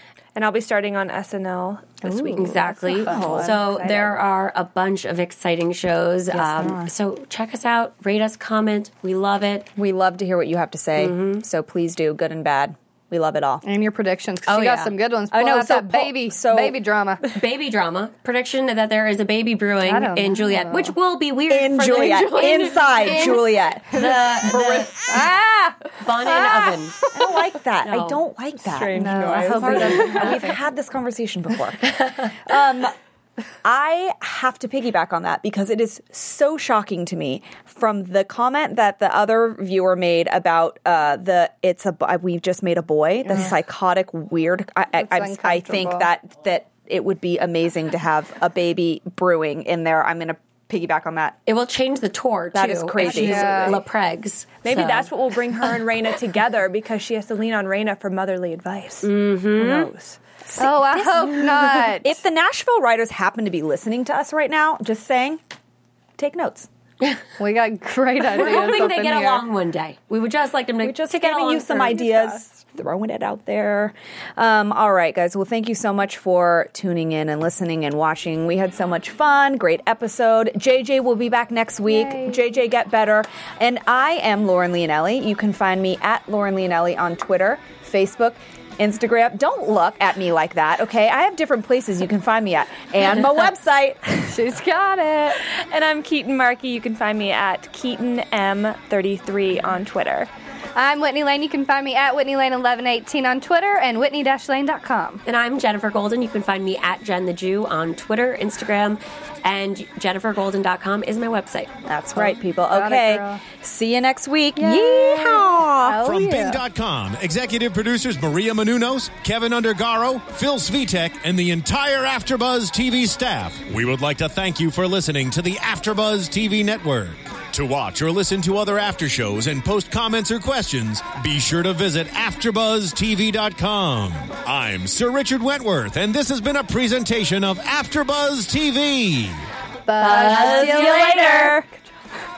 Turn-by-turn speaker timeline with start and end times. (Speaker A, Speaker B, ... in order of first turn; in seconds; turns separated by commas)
Speaker A: 0.3-2.5, Speaker B: 2.0-3.6, Speaker C: 2.4-9.7, Speaker D: 3.1-3.6, Speaker A: 3.1-4.2, Speaker D: 6.3-6.9, Speaker D: 9.8-13.6, Speaker C: 11.0-11.4, Speaker B: 13.6-17.2, Speaker C: 14.5-14.9, Speaker D: 15.3-16.8, Speaker C: 17.3-24.9, Speaker B: 19.8-20.9, Speaker D: 21.5-25.3, Speaker B: 22.0-22.7, Speaker B: 25.1-27.1, Speaker C: 26.0-27.0, Speaker D: 27.1-32.9, Speaker C: 27.8-28.2, Speaker A: 28.6-30.5, Speaker B: 28.9-30.3, Speaker C: 29.8-30.2, Speaker D: 33.6-51.4, Speaker B: 45.0-46.1, Speaker C: 51.5-55.1, Speaker D: 52.5-53.8, Speaker A: 53.0-53.3, Speaker B: 53.1-53.8, Speaker A: 54.6-60.2, Speaker C: 59.0-59.9, Speaker D: 60.5-65.4, Speaker B: 60.6-62.2, Speaker D: 66.2-66.7, Speaker B: 67.4-69.4, Speaker C: 68.3-72.3, Speaker D: 70.8-94.4, Speaker B: 81.9-82.4, Speaker B: 94.3-95.4, Speaker A: 95.4-100.3, Speaker B: 100.8-105.2, Speaker C: 105.2-111.7, Speaker D: 111.8-116.0, Speaker B: 112.2-113.4, Speaker B: 114.5-116.6, Speaker E: 116.0-139.4, Speaker B: 139.8-141.8, Speaker D: 140.0-141.7